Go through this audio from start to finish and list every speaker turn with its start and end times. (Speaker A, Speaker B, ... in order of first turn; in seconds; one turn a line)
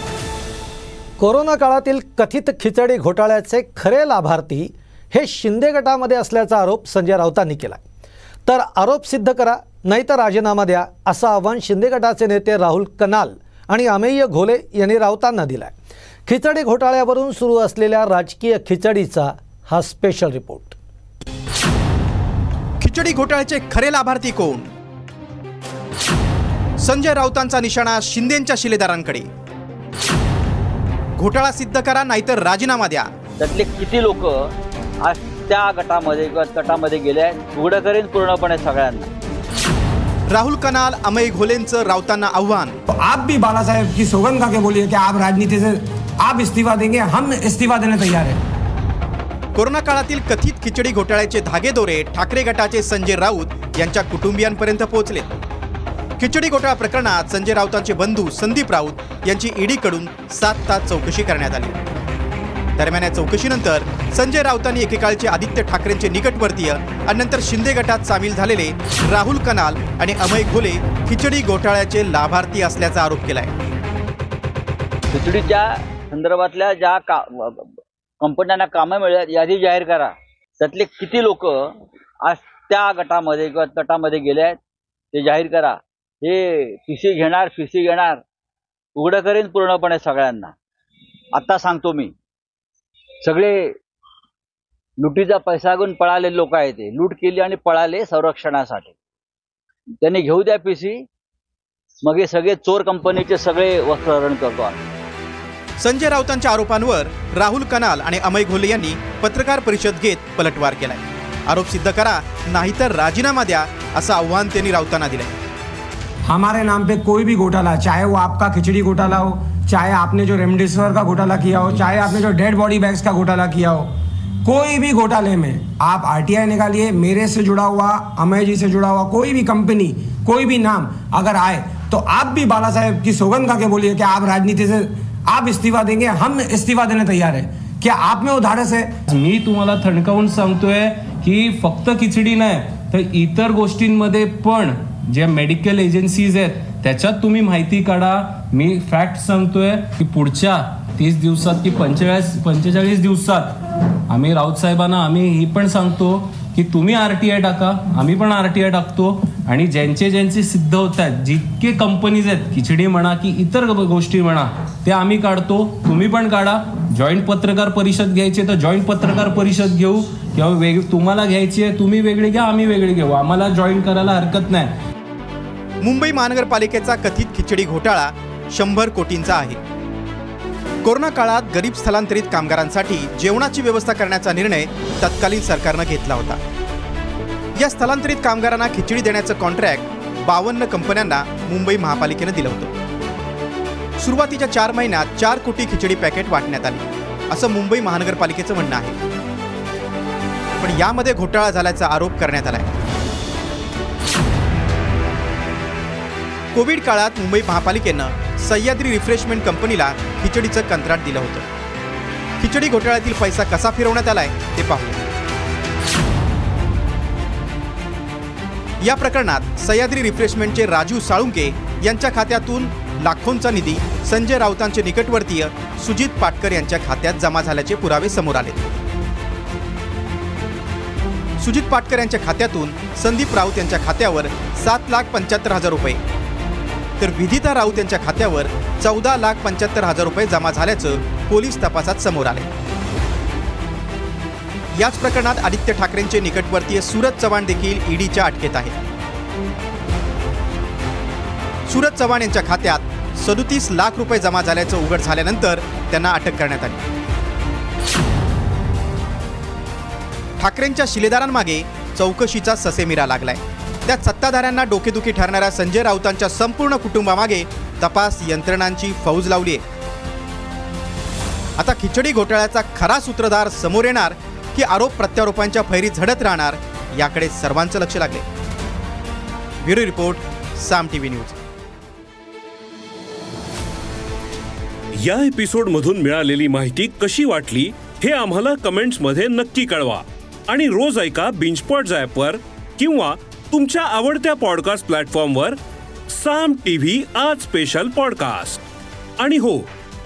Speaker A: 1.2-7.8
Speaker A: 8.4-15.7
Speaker A: 16.2-20.8
Speaker B: 22.8-24.7
Speaker B: 26.8-29.3
Speaker B: 31.2-33.1
Speaker C: 33.4-34.5
Speaker C: 35.0-39.1
Speaker B: 40.3-42.8
Speaker D: 42.9-48.4
Speaker B: 49.5-55.3
Speaker B: 56.2-61.8
Speaker B: 62.8-73.5
Speaker C: 75.1-81.7
Speaker C: 82.2-84.6
Speaker C: 85.1-88.2
Speaker C: 89.0-90.5
Speaker C: 91.3-92.1
Speaker C: 93.2-93.7
Speaker C: 95.0-99.0
Speaker C: 100.0-101.0
Speaker C: 102.0-104.8
Speaker B: 105.8-115.3
Speaker D: 116.3-123.9
Speaker D: 124.4-138.9
Speaker E: 139.1-153.6
Speaker E: 154.1-174.7
Speaker B: 175.8-179.6
Speaker B: 180.8-186.4
Speaker B: 187.6-192.7
Speaker B: 194.0-199.0
Speaker B: 200.6-202.7
Speaker B: 206.5-211.5
Speaker B: 212.4-215.0
Speaker B: 218.8-228.7
Speaker B: 231.4-236.0
Speaker B: 237.0-242.5
Speaker B: 244.8-248.8
Speaker B: 251.7-256.9
Speaker B: 260.4-269.6
Speaker B: 271.6-278.2
Speaker B: 279.6-281.4
Speaker F: 285.0-298.6
Speaker F: 299.2-299.7